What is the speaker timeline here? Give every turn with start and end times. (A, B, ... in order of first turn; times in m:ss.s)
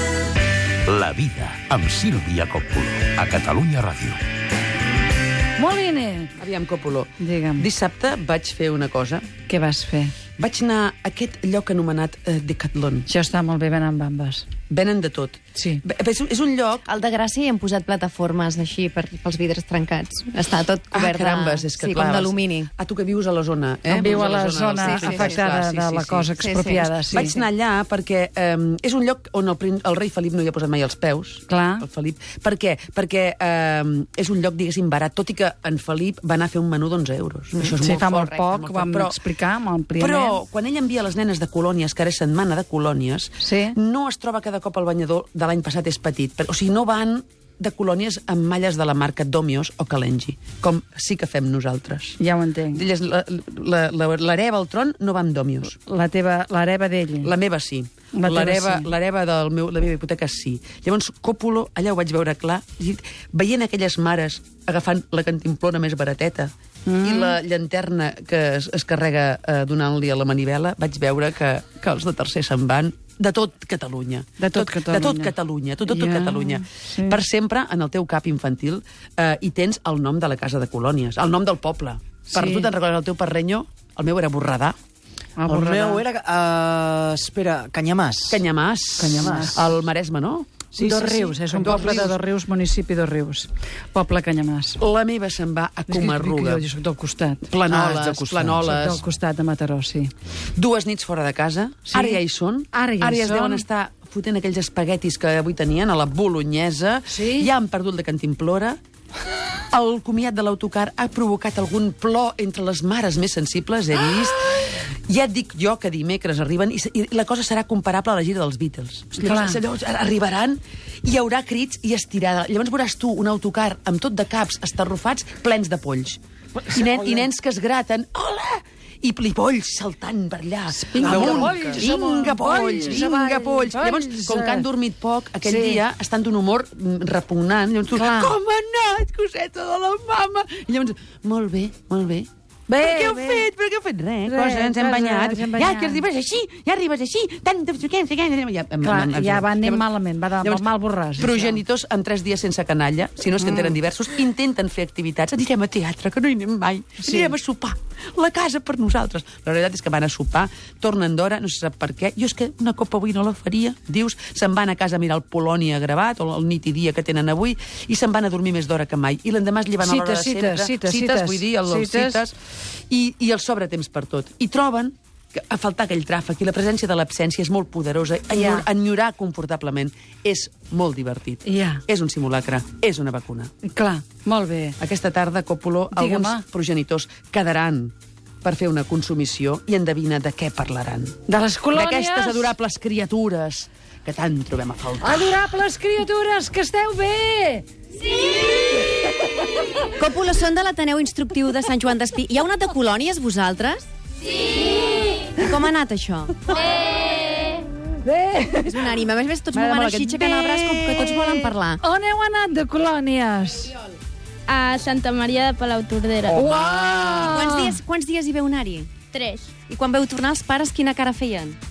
0:00.8-0:04.2 A
0:05.6-0:06.3 B
0:06.4-0:09.3 C
0:07.2-0:07.7 B
0:09.5-0:10.1 B
0:10.4-0:13.1 C
0:13.1-0:14.4 B
0:14.7-0:16.9 C
0:15.5-0:15.8 B
0:16.9-0:22.7 D
0:20.9-0:26.3 C
0:23.9-0:24.2 D
0:23.9-0:27.3 B
0:24.7-0:25.5 D
0:26.4-0:27.4 D
0:27.1-0:39.2 C
0:31.5-0:31.8 B
0:37.8-0:40.4 B
0:40.0-0:55.8 C
0:43.4-0:43.8 B
0:52.2-0:52.8 B
0:55.8-0:57.3 B
0:57.2-1:24.8 C
0:58.1-0:58.9 B
1:06.8-1:07.4 B
1:14.4-1:15.3 B
1:15.8-1:17.2 B
1:22.3-1:22.7 B
1:25.4-1:26.0 B
1:25.4-1:28.4 E
1:28.3-1:32.2 C
1:29.0-1:29.7 B
1:29.2-1:29.6 E
1:30.7-1:34.8 B
1:34.8-1:36.6 C
1:35.9-1:37.5 B
1:37.5-1:39.0 C
1:37.7-1:38.4 E
1:38.0-1:40.1 B
1:40.5-1:48.8 C
1:41.9-1:42.2 B
1:42.7-1:43.6 B
1:47.1-1:47.5 B
1:49.7-2:29.9 C
1:59.2-1:59.6 B
2:06.8-2:07.2 E
2:10.8-2:14.6 B
2:11.0-2:11.8 E
2:15.4-2:15.8 B
2:17.9-2:18.3 B
2:22.7-2:23.5 B
2:24.2-2:26.0 B
2:28.8-2:31.6 B
2:31.2-2:52.4 C
2:33.4-2:33.8 B
2:37.0-2:37.3 B
2:49.8-2:52.2 B
2:52.9-3:03.5 C
2:58.3-2:58.6 B
3:01.4-3:01.8 B
3:03.6-3:04.8 B
3:04.8-3:11.2 C
3:05.9-3:06.4 B
3:11.3-3:12.5 B
3:11.7-3:15.3 C
3:15.0-3:17.6 B
3:19.9-3:23.8 D
3:25.3-3:26.5 D
3:26.5-3:27.6 F
3:28.0-3:28.9 B
3:28.6-3:31.8 D
3:29.5-3:31.5 C
3:31.8-3:33.7 B
3:34.5-3:36.3 F
3:36.3-3:37.4 C
3:36.3-3:37.8 B
3:37.1-3:38.9 D
3:39.1-3:39.5 F
3:39.7-3:41.6 D